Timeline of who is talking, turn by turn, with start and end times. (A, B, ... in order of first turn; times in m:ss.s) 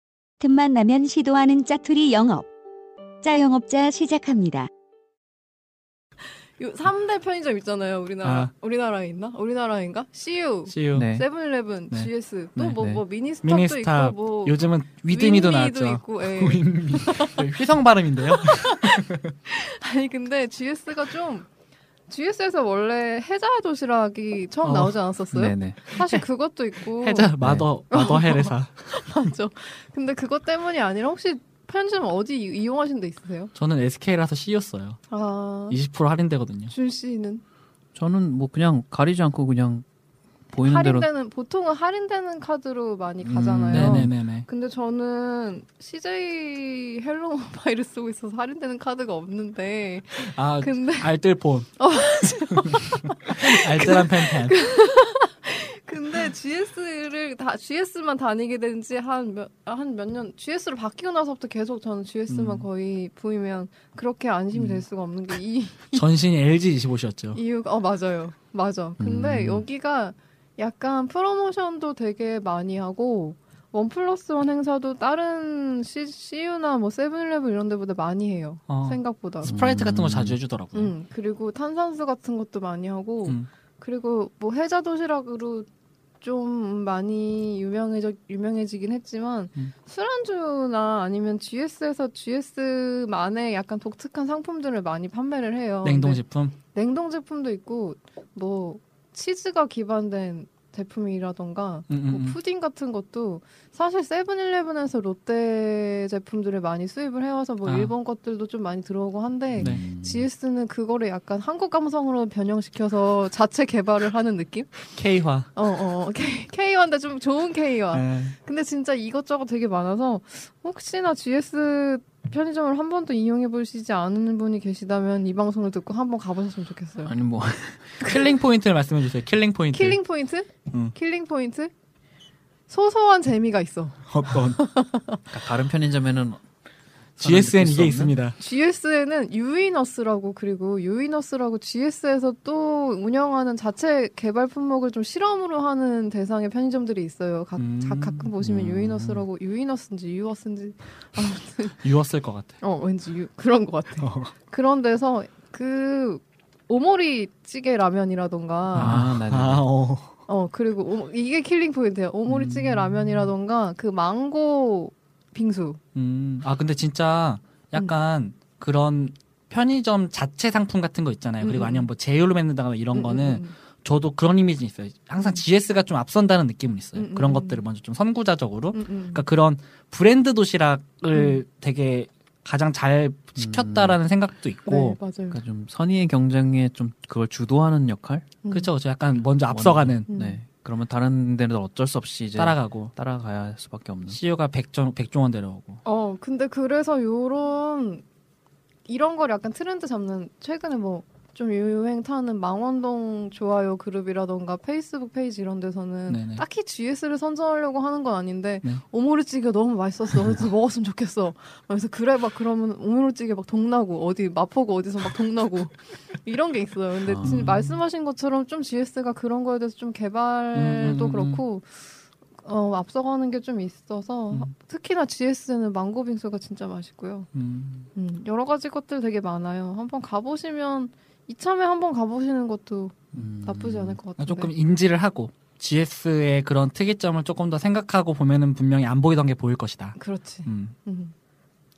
0:00.4-0:02.5 A
0:03.2-0:04.7 A
0:06.6-0:17.5 B
0:08.2-0:08.5 C
0:10.7-0:11.1 C
0:11.0-0:11.2 D
0:11.9-0:12.9 C
0:12.8-0:13.0 D
0:13.4-0:19.3 C
0:18.2-0:21.5 B
0:22.1-0:27.4 B
0:24.6-0:25.0 C
0:25.3-0:25.8 D
0:25.8-0:26.2 C
0:26.9-0:28.9 C
0:27.4-0:27.7 D
0:27.9-0:33.5 B
0:33.6-0:35.0 C
0:35.1-0:35.8 B
0:35.7-0:36.7 C
0:36.7-0:37.4 B
0:38.0-0:39.8 D
0:40.5-0:41.1 D
0:40.5-0:51.1 B
0:43.2-0:44.1 D
0:43.6-0:44.5 C
0:50.2-0:51.8 C
0:51.8-1:06.1 B
0:52.7-0:54.6 C
1:02.3-1:02.7 C
1:04.5-1:04.8 C
1:05.9-1:07.4 C
1:07.3-1:19.6 B
1:09.0-1:09.6 D
1:18.7-1:20.9 C
1:19.4-1:20.4 D
1:20.7-1:25.7 B
1:26.2-1:54.9 B
1:35.8-1:36.6 C
1:41.9-1:42.4 C
1:47.6-1:47.9 C
1:49.5-1:50.3 D
1:49.6-1:49.8 C
1:55.0-1:55.5 C
1:55.5-2:07.1 B
1:57.9-1:58.4 C
2:07.0-2:08.0 D
2:08.0-2:10.0 C
2:09.7-2:11.7 B
2:12.7-2:15.2 B
2:14.1-2:14.6 C
2:15.3-2:16.4 D
2:17.2-2:18.2 D
2:17.2-2:18.4 C
2:18.4-2:31.9 B
2:27.6-2:28.3 C
2:28.4-2:29.2 D
2:31.8-2:32.6 C
2:32.6-2:39.0 B
2:34.0-2:34.3 C
2:38.7-2:40.2 C
2:38.8-2:39.7 D
2:40.3-2:45.8 B
2:42.3-2:43.3 C
2:46.0-3:05.0 C
2:51.4-2:51.9 B
2:52.9-2:53.5 B
2:57.0-2:57.6 B
2:58.7-2:59.3 B
3:01.1-3:01.4 B
3:03.4-3:04.0 D
3:04.7-3:05.4 B
3:05.3-3:08.3 D
3:08.4-3:08.7 B
3:08.5-3:10.1 C
3:09.5-3:14.2 D
3:10.1-3:10.4 B
3:12.4-3:12.9 C
3:14.1-3:15.8 C
3:15.8-3:18.0 B
3:18.9-3:47.3 B
3:26.1-3:26.4 C
3:37.0-3:37.7 D
3:37.2-3:37.6 C
3:40.5-3:41.4 C
3:47.3-3:47.9 C
3:48.0-3:54.5 B
3:53.1-3:54.0 D
3:54.2-4:00.8 C
4:00.0-4:01.1 B